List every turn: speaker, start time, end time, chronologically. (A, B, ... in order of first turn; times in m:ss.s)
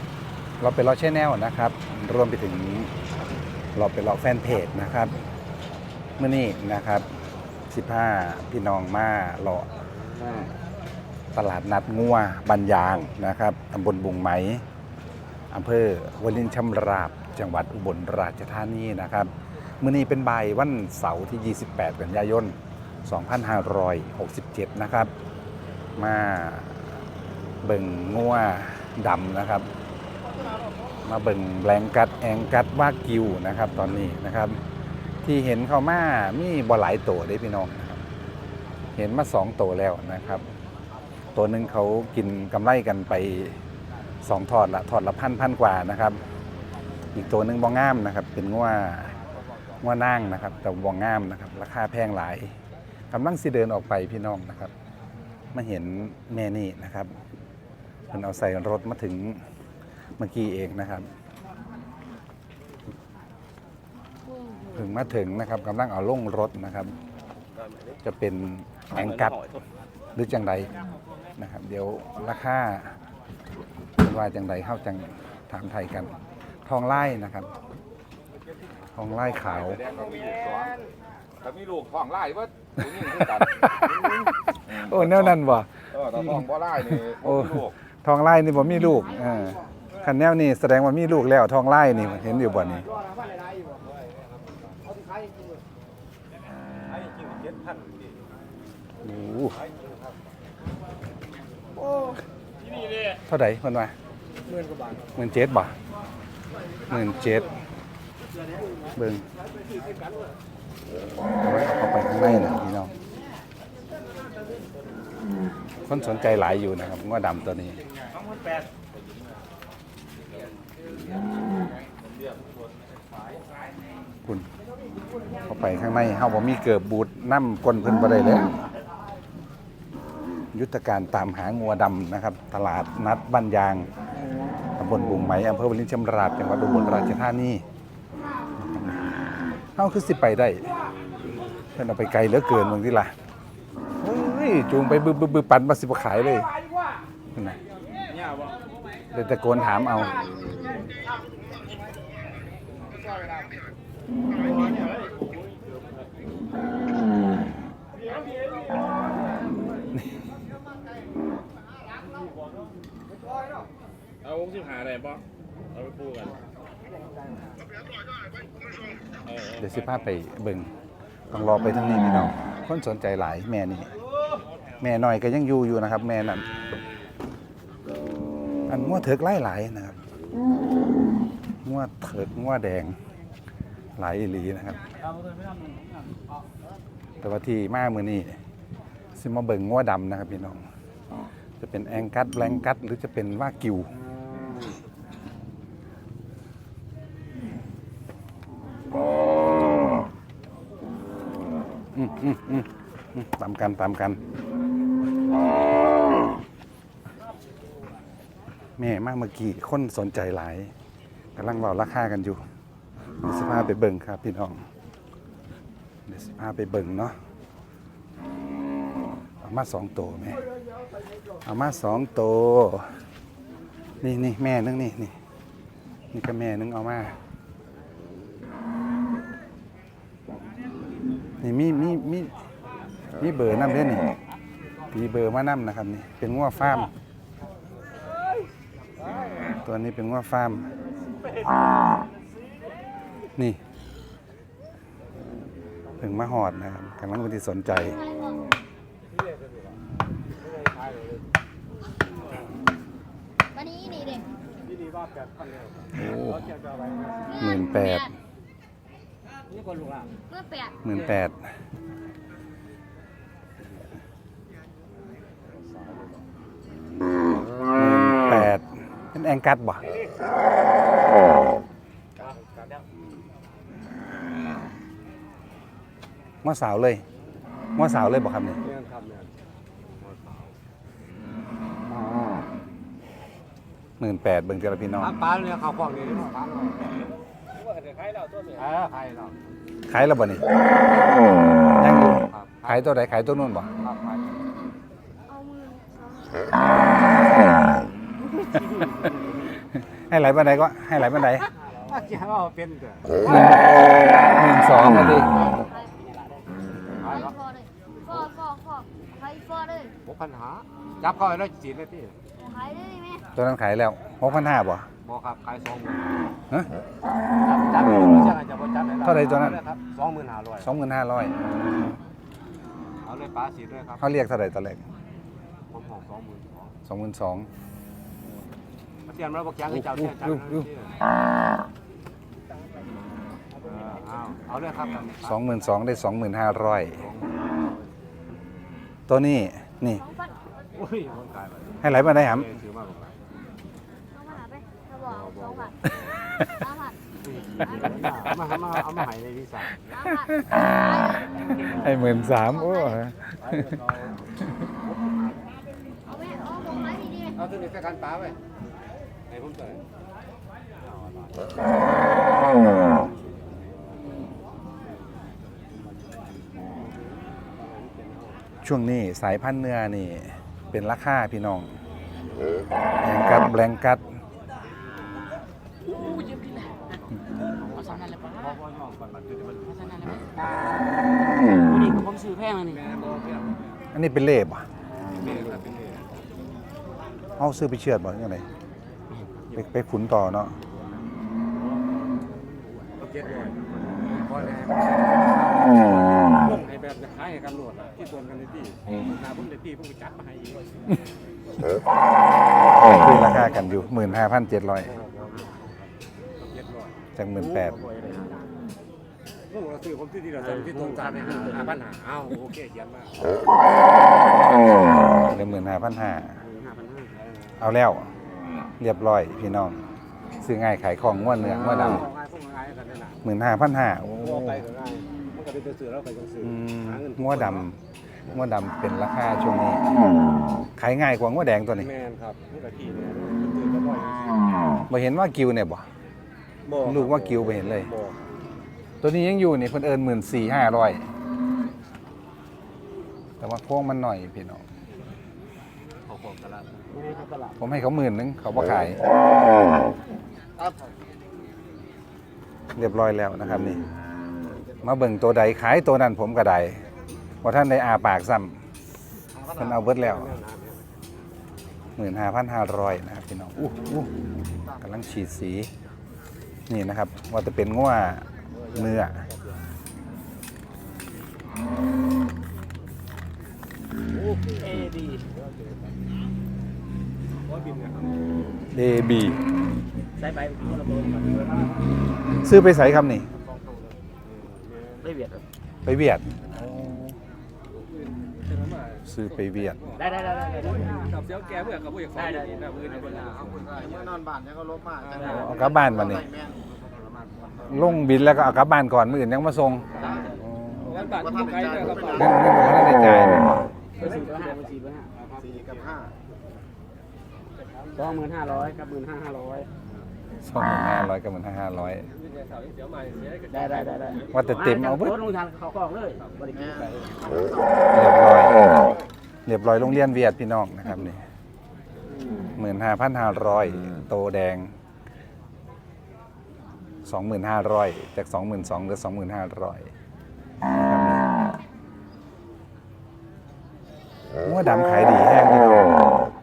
0:00.6-0:02.9 A
0:03.7-0:05.2 A
0:06.2-0:07.1 A
0:07.7-0:09.8 A
0:11.3-0:14.6 A
0:15.5-0:25.1 A
0:26.0-0:26.9 A
0:27.6-0:29.7 A
0:31.0-0:34.6 A
0:35.2-0:38.0 A
0:39.0-0:40.4 A
0:41.3-0:43.6 A
0:44.2-0:46.2 A
0:47.1-0:49.2 A
0:49.8-0:52.5 A
0:53.1-0:54.7 A
0:55.5-0:57.1 A
0:58.1-0:59.4 A
1:00.2-1:01.1 A
1:04.7-1:06.9 A
1:08.0-1:09.4 A
1:10.1-1:10.7 A
1:11.4-1:12.9 A
1:14.0-1:16.1 A
1:16.6-1:17.5 A
1:18.9-1:19.9 A
1:19.8-1:20.7 B
1:21.4-1:23.5 B
1:22.8-1:32.9 A
1:26.2-1:27.6 B
1:34.8-1:35.3 C
1:36.9-1:38.2 C
1:39.0-1:39.6 A
1:39.6-1:39.9 C
1:43.3-1:43.9 A
1:44.5-1:45.0 C
1:45.1-1:45.7 A
1:46.9-1:47.5 A
1:48.9-1:49.2 A
1:51.4-1:52.9 A
1:55.8-1:57.8 A
2:05.4-2:08.5 A
2:10.5-2:13.9 A
2:14.8-2:17.6 A
2:18.6-2:19.0 A
2:19.7-2:20.7 A
2:21.7-2:23.1 A
2:24.0-2:26.5 A
2:29.1-2:30.2 A
2:49.5-2:50.7 A
2:51.3-2:53.9 A
2:54.8-2:56.4 A
2:58.7-3:00.0 A
3:01.6-3:03.0 A
3:04.0-3:04.8 A
3:07.2-3:08.4 A
3:09.2-3:10.6 A
3:11.6-3:13.9 A
3:21.9-3:24.2 A
3:28.8-3:30.7 A
3:31.4-3:32.4 A
3:33.2-3:34.6 A
3:36.1-3:37.2 A
3:39.4-3:40.4 A
3:41.4-3:42.9 A
3:44.0-3:45.1 A
3:46.1-3:47.2 A
3:51.4-3:52.3 A
3:53.2-3:54.1 A
3:54.9-3:56.9 A
3:59.6-4:00.7 A
4:06.0-4:08.0 A
4:08.0-4:08.4 D
4:10.4-4:11.2 C
4:13.5-4:14.3 D
4:14.6-4:17.3 C
4:15.9-4:16.5 A
4:17.3-4:18.0 D
4:17.4-4:18.1 A
4:19.5-4:20.1 C
4:20.3-4:20.8 D
4:20.8-4:21.4 A
4:27.7-4:29.8 A
4:36.4-4:37.0 A
4:37.8-4:38.6 A
4:38.6-4:39.3 C
4:40.0-4:40.4 C
4:44.0-4:45.2 A
4:45.0-4:47.0 C
4:48.5-4:49.4 C
4:49.9-4:50.4 A
4:51.6-4:53.7 A
4:52.3-4:52.9 C
4:53.8-4:54.4 C
4:55.3-4:57.4 D
4:58.4-4:59.2 C
4:59.9-5:01.5 A
5:01.8-5:03.2 C
5:03.2-5:05.4 A
5:05.3-5:06.0 D
5:07.0-5:09.9 D
5:07.0-5:07.3 C
5:10.0-5:12.2 C
5:12.4-5:13.3 D
5:13.3-5:14.9 A
5:15.0-5:16.0 C
5:17.4-5:20.7 C
5:19.0-5:19.6 A
5:20.6-5:21.3 A
5:23.0-5:24.0 C
5:24.0-5:24.8 A
5:25.7-5:26.7 C
5:26.8-5:27.5 A
5:29.1-5:31.0 C
5:29.9-5:30.6 A
5:33.7-5:35.3 C
5:35.2-5:37.0 A
5:37.0-5:37.6 C
5:39.1-5:40.0 A
5:40.0-5:40.3 D
5:40.7-5:43.2 C
5:41.8-5:42.5 A
5:44.1-5:45.7 D
5:45.2-5:45.7 C
5:46.5-5:47.0 D
5:47.2-5:49.7 C
5:47.6-5:48.0 D
5:49.9-5:51.3 D
5:50.1-5:50.6 A
5:51.5-5:53.6 A
5:52.5-5:52.9 D
5:53.5-5:54.1 C
5:56.0-5:57.5 D
5:57.4-5:58.4 C
5:59.3-5:59.8 C
6:07.5-6:08.4 C
6:08.6-6:11.7 A
6:13.0-6:14.0 A
6:15.9-6:16.7 E
6:17.7-6:20.0 C
6:17.7-6:18.5 E
6:19.9-6:20.7 E
6:21.3-6:22.8 E
6:22.7-6:23.7 C
6:23.9-6:24.7 A
6:25.2-6:26.0 C
6:27.4-6:28.5 A
6:29.5-6:30.5 A
6:33.0-6:40.7 C
6:42.8-6:44.9 A
6:43.3-6:44.1 C
6:44.8-6:45.8 C
6:46.4-6:46.9 C
6:47.2-6:47.8 A
6:47.6-6:48.4 E
6:49.5-6:53.4 C
6:50.5-6:51.6 E
6:55.2-6:56.4 A
6:56.4-6:57.2 E
6:57.2-6:57.5 C
6:57.6-6:58.1 A
6:58.8-6:59.8 A
7:00.4-7:02.1 A
7:01.4-7:03.2 C
7:03.2-7:04.6 A
7:04.2-7:07.6 C
7:06.4-7:07.8 A
7:08.3-7:09.9 A
7:10.8-7:11.9 A
7:11.8-7:14.6 C
7:14.9-7:15.8 A
7:16.6-7:18.1 C
7:16.8-7:17.9 A
7:19.0-7:21.1 A
7:23.4-7:24.6 A
7:26.1-7:27.0 C
7:27.0-7:27.5 E
7:27.6-7:29.0 A
7:32.7-7:33.8 A
7:34.8-7:36.8 A
7:37.4-7:38.6 A
7:39.4-7:40.8 C
7:39.4-7:40.3 A
7:42.0-7:44.1 A
7:44.7-7:45.7 A
7:46.7-7:49.2 A
7:48.7-7:49.5 C
7:54.3-7:54.8 C
7:54.7-7:55.2 E
7:57.5-7:58.1 C
7:58.7-7:59.4 A
8:00.2-8:01.8 E
8:02.4-8:03.3 A
8:04.2-8:05.1 C
8:05.0-8:05.4 E
8:05.8-8:07.1 A
8:08.2-8:09.0 C
8:09.0-8:09.8 A
8:09.8-8:10.2 C
8:10.0-8:11.4 E
8:11.1-8:14.3 C
8:12.1-8:13.5 E
8:14.9-8:15.6 C
8:15.2-8:16.4 A
8:16.5-8:17.8 C
8:17.7-8:21.2 A
8:21.0-8:22.0 C
8:21.9-8:23.7 A
8:24.0-8:25.1 E
8:25.2-8:26.1 C
8:27.9-8:29.7 E
8:30.4-8:32.1 A
8:32.5-8:33.4 C
8:33.5-8:37.3 E
8:34.3-8:35.2 A
8:37.9-8:38.6 A
8:39.4-8:41.2 A
8:42.5-8:44.7 A
8:47.0-8:49.9 A
8:50.7-8:51.2 A
8:54.4-8:56.0 A